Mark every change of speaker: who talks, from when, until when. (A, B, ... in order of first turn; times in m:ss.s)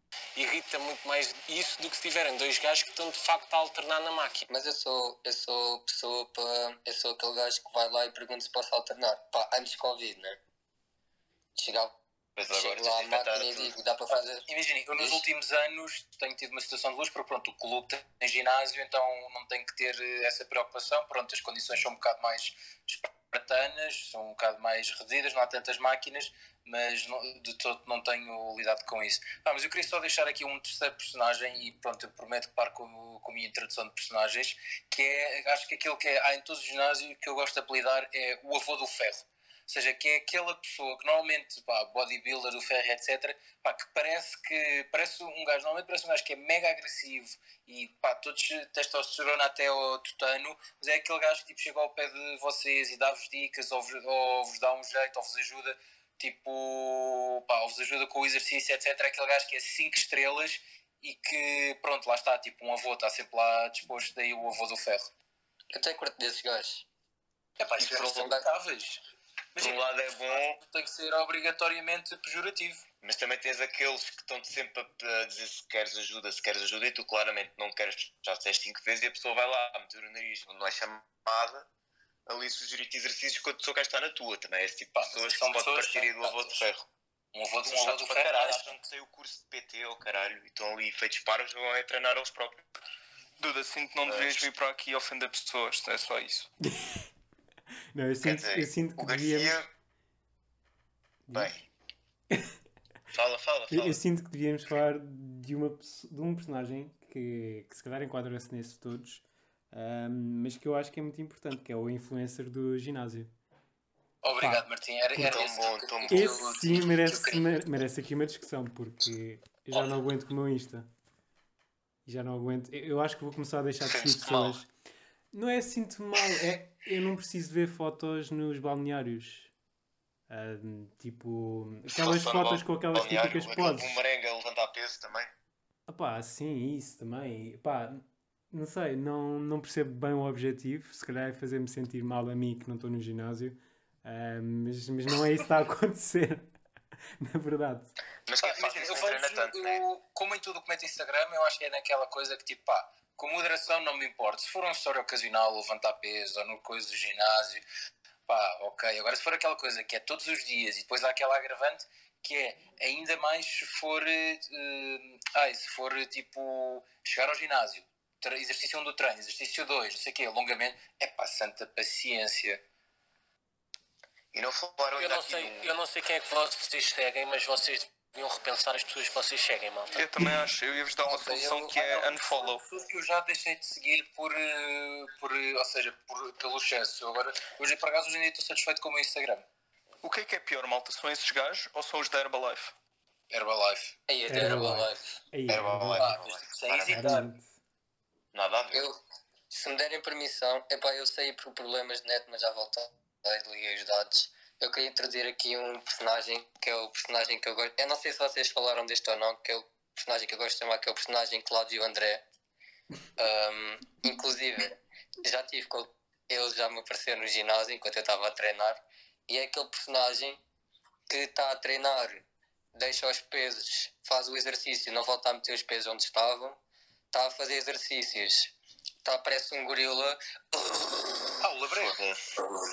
0:00.4-0:04.5 A
0:04.5-0:10.4 B
0:11.6-0:12.0 B
0:12.4-0:13.8 C
0:12.5-0:14.4 B
0:14.5-1:05.1 D
1:05.7-1:06.8 B
1:07.6-1:09.0 D
1:07.8-1:08.3 C
1:07.9-1:08.4 B
1:09.6-1:12.8 D
1:09.6-1:10.6 C
1:13.0-1:21.7 C
1:22.3-1:26.9 C
1:25.0-1:26.6 D
1:27.3-1:28.7 D
1:27.7-1:32.7 C
1:33.4-1:36.5 E
1:34.0-1:34.5 C
1:37.9-1:39.6 F
1:38.2-1:39.7 C
1:41.3-1:41.5 F
1:41.3-1:41.6 C
1:43.1-1:44.0 C
1:43.7-1:53.3 F
1:54.2-1:57.5 D
1:54.2-1:54.6 F
1:55.2-1:56.4 C
1:56.1-2:00.9 F
2:02.1-2:04.7 F
2:03.8-2:04.6 C
2:05.3-2:09.5 F
2:10.3-2:14.0 F
2:11.9-2:15.3 C
2:15.9-2:26.5 F
2:27.2-2:28.0 F
2:28.3-2:29.8 C
2:28.4-2:37.6 D
2:38.3-2:52.6 D
2:54.3-2:55.7 C
2:55.0-3:00.0 A
2:59.9-3:02.6 E
3:01.1-3:09.4 D
3:10.0-3:12.7 E
3:13.3-3:14.0 D
3:14.1-3:15.1 B
3:14.3-3:16.2 F
3:15.5-3:17.2 C
3:16.0-3:17.3 D
3:16.9-3:17.5 F
3:18.3-3:18.9 C
3:18.7-3:19.0 B
3:19.5-3:32.2 B
3:33.2-3:40.4 B
3:41.1-3:46.6 B
3:47.1-3:48.5 B
3:49.0-3:51.2 B
3:51.4-3:52.0 D
3:51.7-3:52.4 C